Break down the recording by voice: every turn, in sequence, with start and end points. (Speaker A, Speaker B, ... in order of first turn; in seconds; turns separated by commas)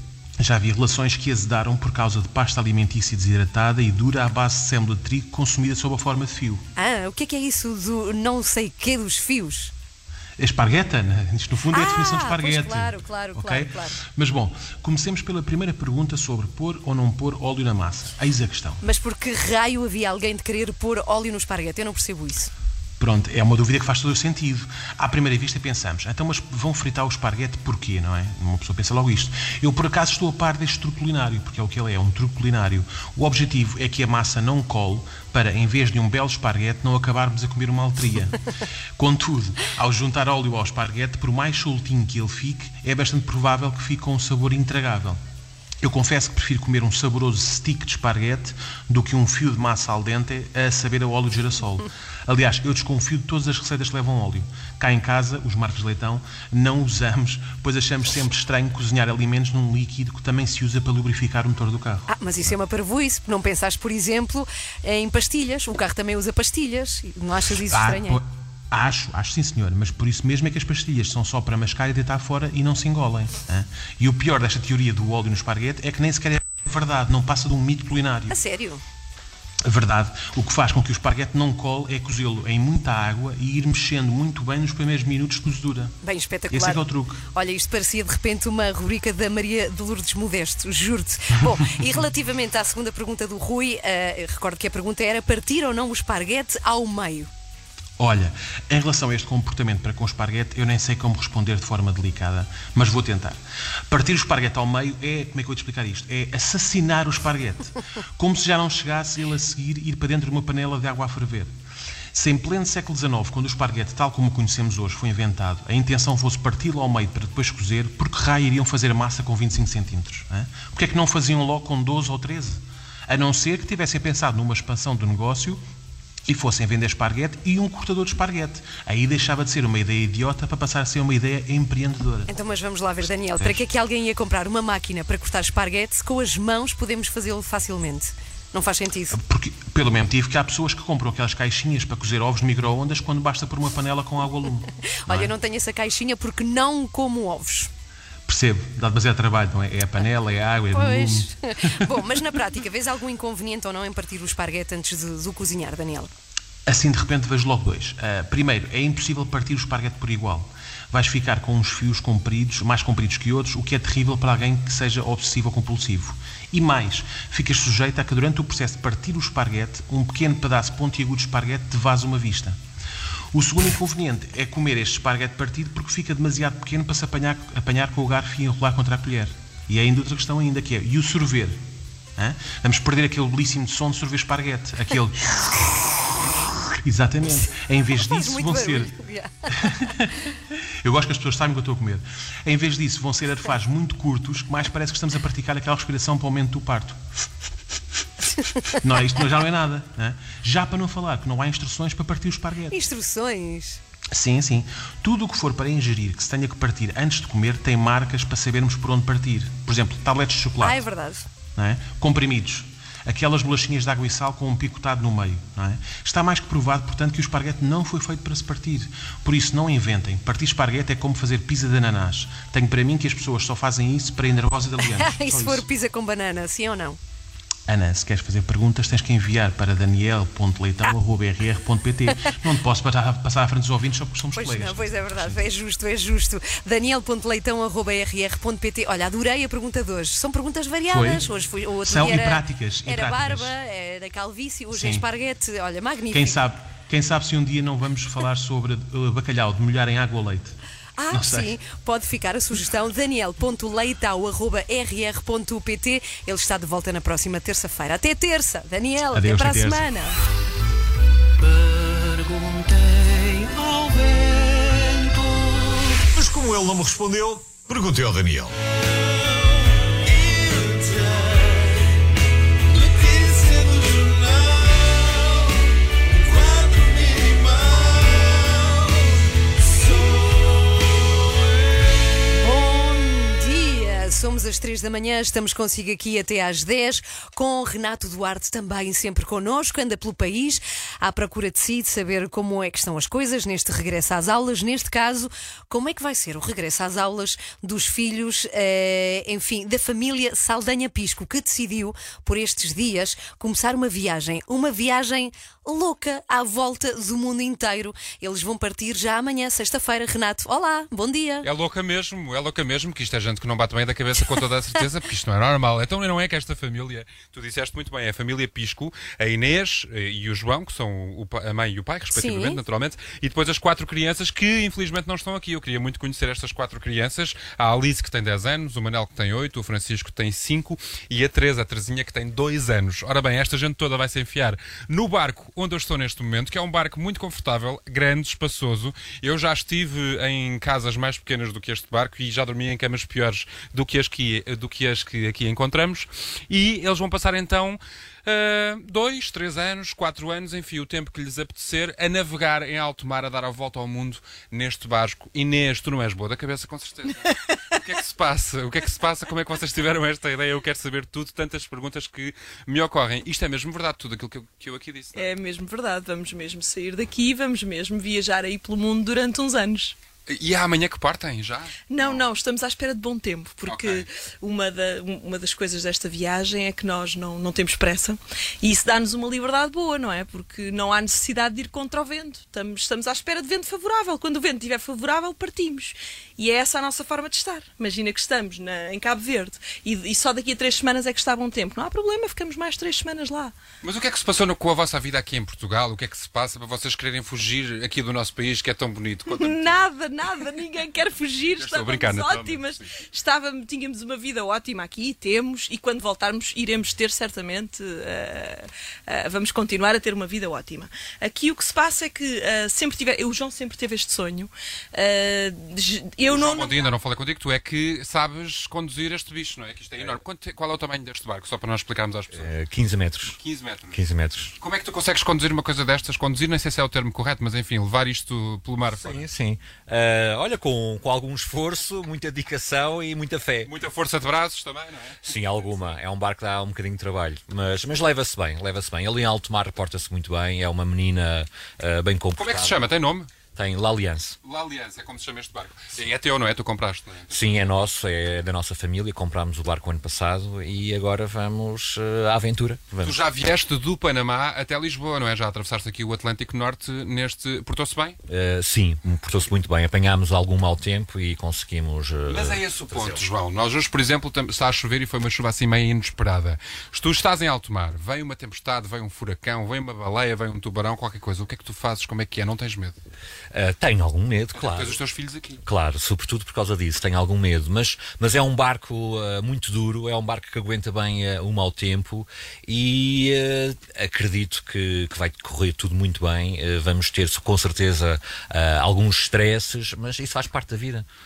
Speaker A: 0.4-6.6, Speaker B: 6.8-9.7, Speaker A: 10.4-18.8, Speaker B: 11.7-14.0, Speaker B: 18.8-22.5, Speaker A: 23.0-38.4, Speaker A: 39.0-45.2, Speaker A: 45.8-62.5, Speaker B: 62.1-68.2, Speaker A: 67.7-78.4, Speaker B: 78.3-78.8, Speaker A: 79.7-85.9, Speaker B: 86.0-97.3, Speaker A: 86.5-87.2, Speaker A: 98.0-111.5, Speaker A: 112.1-125.6, Speaker A: 126.3-132.3, Speaker B: 132.3-139.2, Speaker A: 133.4-133.6, Speaker A: 139.1-145.3, Speaker B: 145.1-147.7, Speaker A: 148.3-152.0, Speaker B: 150.7-156.1, Speaker A: 156.7-172.6, Speaker A: 173.3-181.6, Speaker A: 182.2-185.4, Speaker A: 186.8-189.0, Speaker B: 187.3-189.7, Speaker A: 189.6-197.0, Speaker A: 198.7-202.8, Speaker B: 202.7-203.8, Speaker A: 204.1-210.9, Speaker B: 210.6-211.3, Speaker A: 211.6-225.7, Speaker B: 224.8-227.0, Speaker A: 227.7-235.5, Speaker B: 234.3-246.4, Speaker A: 240.9-241.3, Speaker A: 241.8-243.5, Speaker A: 244.7-245.1, Speaker A: 246.1-250.6, Speaker B: 251.0-260.2, Speaker A: 251.1-251.6, Speaker A: 259.1-259.9, Speaker C: 263.6-263.9, Speaker C: 266.0-268.5, Speaker B: 282.3-311.5, Speaker D: 311.4-365.3, Speaker B: 322.1-322.6, Speaker E: 365.1-370.0, Speaker D: 370.3-372.2, Speaker E: 371.9-393.6, Speaker D: 373.7-374.1, Speaker D: 393.8-399.8, Speaker E: 399.3-416.9, Speaker D: 401.6-402.9, Speaker D: 416.3-422.6, Speaker F: 422.3-423.4, Speaker D: 423.3-424.0, Speaker F: 423.9-424.6, Speaker D: 424.6-429.2, Speaker F: 428.9-433.7, Speaker D: 433.6-435.9, Speaker F: 435.2-442.8, Speaker D: 442.4-443.3, Speaker F: 443.5-444.4, Speaker D: 444.4-447.6, Speaker F: 447.3-453.2, Speaker D: 453.0-458.2, Speaker F: 458.3-463.3, Speaker D: 462.3-473.0, Speaker F: 473.5-475.0, Speaker D: 474.6-475.6, Speaker F: 475.7-491.1